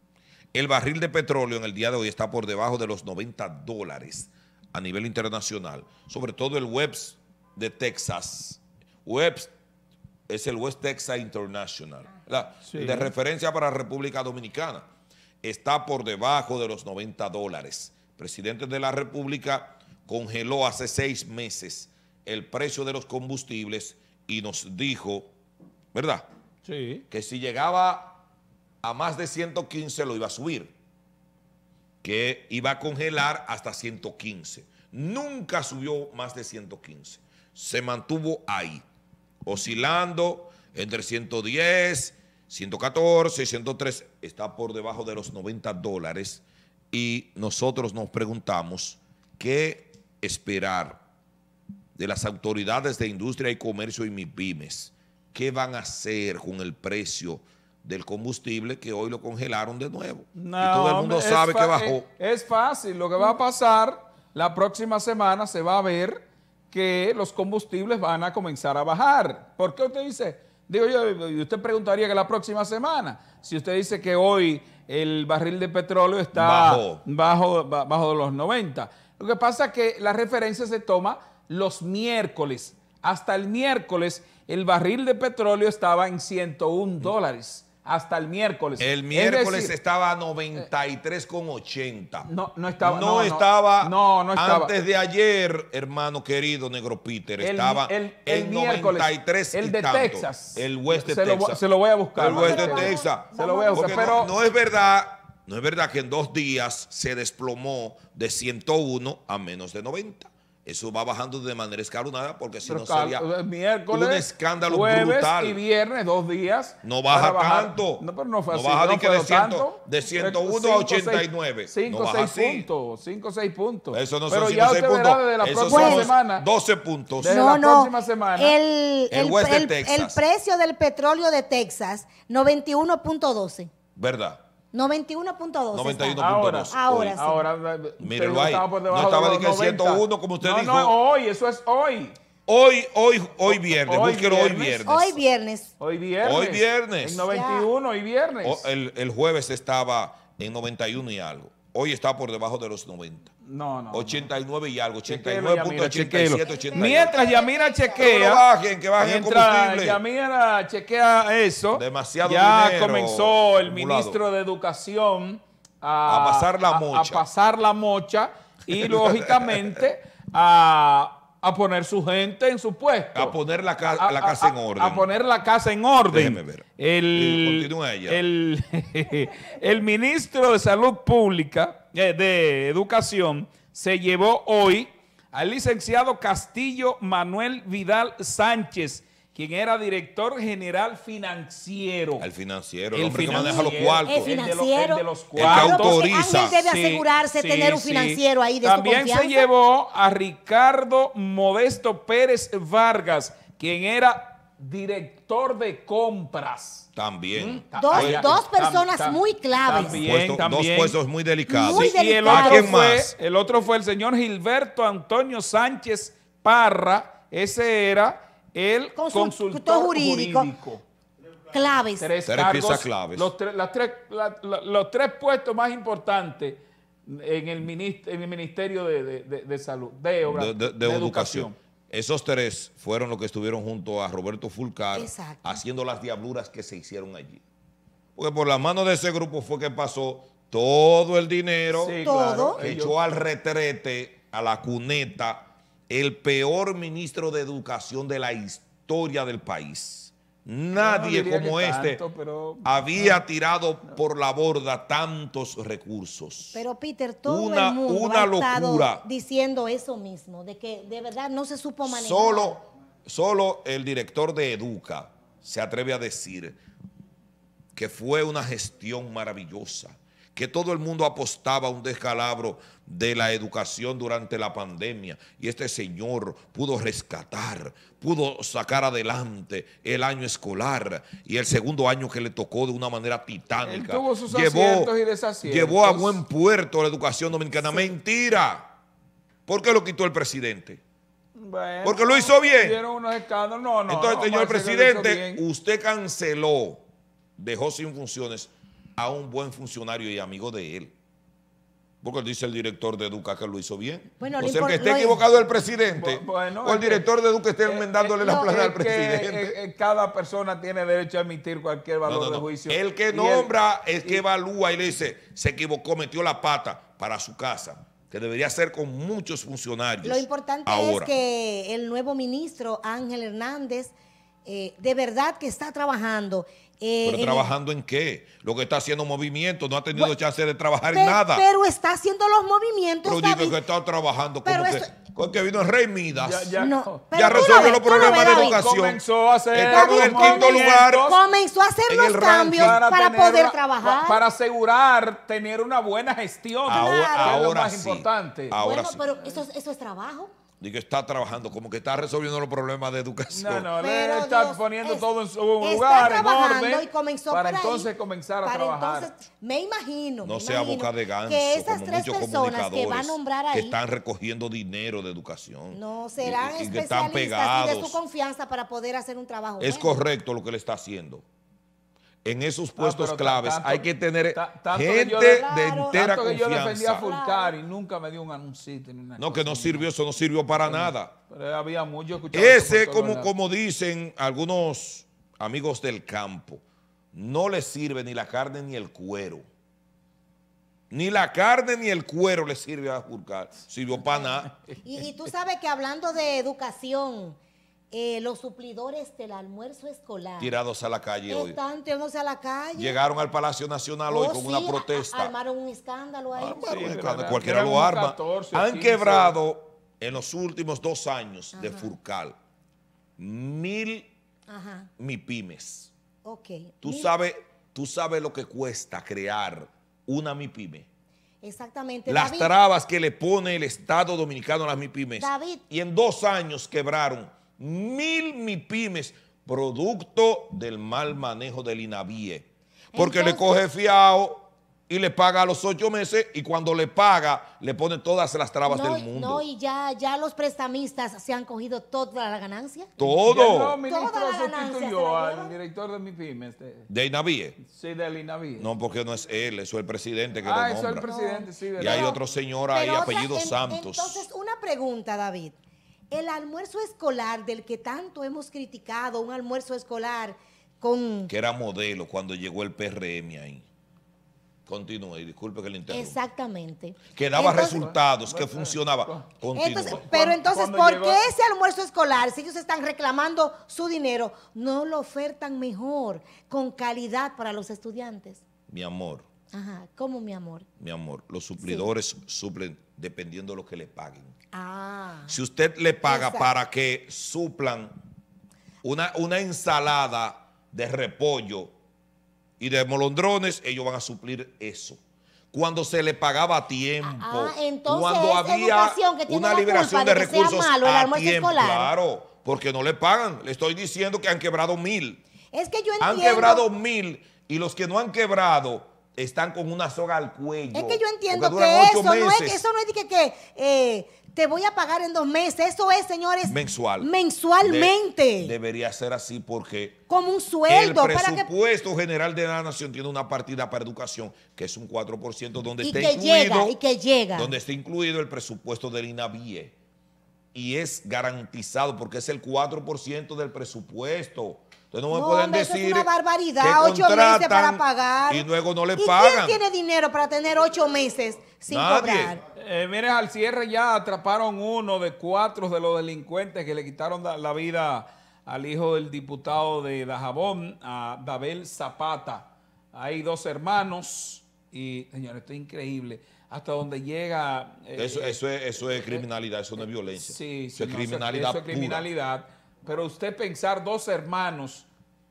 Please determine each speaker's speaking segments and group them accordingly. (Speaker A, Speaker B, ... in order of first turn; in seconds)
Speaker A: 0.5-9.5, 10.3-14.8, 15.4-25.3, 25.9-26.2, 27.1-28.2, 28.8-30.7, 32.0-38.8, 39.4-51.0, 52.0-62.1, 76.3-77.0, 88.8-92.3, 92.8-101.6, 102.1-113.3, 113.9-115.6, 116.8-122.7, 123.9-127.4, 129.1-130.2, 133.9-134.4, 135.7-137.2, 138.0-140.9, 142.5-145.2, 146.2-147.2, 148.4-153.3, 153.9-157.1, 157.9-160.0, 161.7-164.2, 166.1-167.2, 168.9-169.6, 173.1-175.1, 176.1-178.2, 192.2-194.3, 195.3-196.6, 206.9-208.2, 209.8-213.1, 222.2-223.3, 230.2-237.4, 238.2-252.0, 252.6-256.6, 257.2-259.0, 261.8-266.6, 267.7-288.7, 289.5-290.8, 291.8-292.8, 293.9-296.8, 297.4-300.9, 302.0-309.5, 312.1-321.1, 327.0-331.4, 333.0-336.6, 337.1-339.0, 339.5-341.1, 341.9-342.8, 346.6-349.1, 350.6-353.7, 360.2-368.0, 369.6-371.2, 372.2-377.1, 379.2-381.1, 382.3-386.6, 387.1-389.4, 390.9-394.5, 400.4-401.6, 402.7-405.3, 406.4-412.4, 413.2-414.1, 415.0-415.9, 416.8-420.9, 422.1-439.4, 443.0-443.8, 446.9-447.6, 448.6-451.1, 451.8-454.2, 461.3-463.6, 464.7-466.2, 467.1-470.1, 478.7-479.2, 480.8-484.3, 485.3-488.0, 488.8-491.7, 492.6-495.0, 495.5-505.2, 506.0-512.6, 516.5-517.1, 517.6-520.0, 520.7-526.8, 527.3-529.7, 530.5-539.6, 541.7-542.4, 558.0-562.1
Speaker B: 12.6-13.1, 26.6-27.0, 60.3-89.7, 92.2-94.7, 97.4-104.3, 112.7-126.5, 127.2-128.6, 136.2-142.2, 143.4-144.9, 145.8-148.7, 153.4-154.3, 155.1-158.5, 159.0-192.3, 192.9-196.0, 196.6-211.0, 211.6-220.8, 222.0-231.6, 241.7-243.0, 250.7-253.2, 283.6-286.2, 287.6-287.9, 291.4-295.4, 305.8-307.1, 307.6-314.2, 336.1-341.2, 342.5-348.6, 353.3-359.1, 372.8-379.9, 380.5-383.3, 406.4-409.4, 443.0-446.9, 447.6-448.7, 450.4-452.2, 467.7-469.3, 469.9-471.3, 542.5-559.2, 559.8-564.9
Speaker C: 102.3-104.2, 125.7-126.1, 127.2-133.7, 134.7-137.4, 144.8-145.7, 147.3-147.7, 156.4-158.0, 193.3-199.5, 207.8-210.0, 211.5-212.8, 218.9-220.5, 221.5-222.1, 234.9-235.6, 242.0-242.6, 256.5-262.6, 304.2-305.2, 320.0-323.9, 324.4-327.5, 330.9-333.6, 334.4-334.9, 336.6-338.6, 339.6-344.2, 346.7-347.5, 348.6-350.3, 353.8-355.1, 355.6-357.9, 358.4-363.8, 365.7-370.0, 375.4-376.0, 377.0-377.5, 394.8-397.4, 397.9-400.5, 401.3-403.0, 404.1-407.0, 411.5-411.9, 414.5-414.9, 416.2-417.1, 421.4-422.5, 425.2-425.6, 432.9-433.6, 438.7-442.9, 443.8-445.6, 451.0-455.5, 456.1-461.3, 465.9-467.8, 469.5-478.4, 479.5-480.6, 481.6-481.9, 484.5-485.4, 486.0-486.5, 497.0-501.9, 505.5-506.6, 510.7-518.5, 520.1-521.5, 525.8-527.5, 535.1-542.4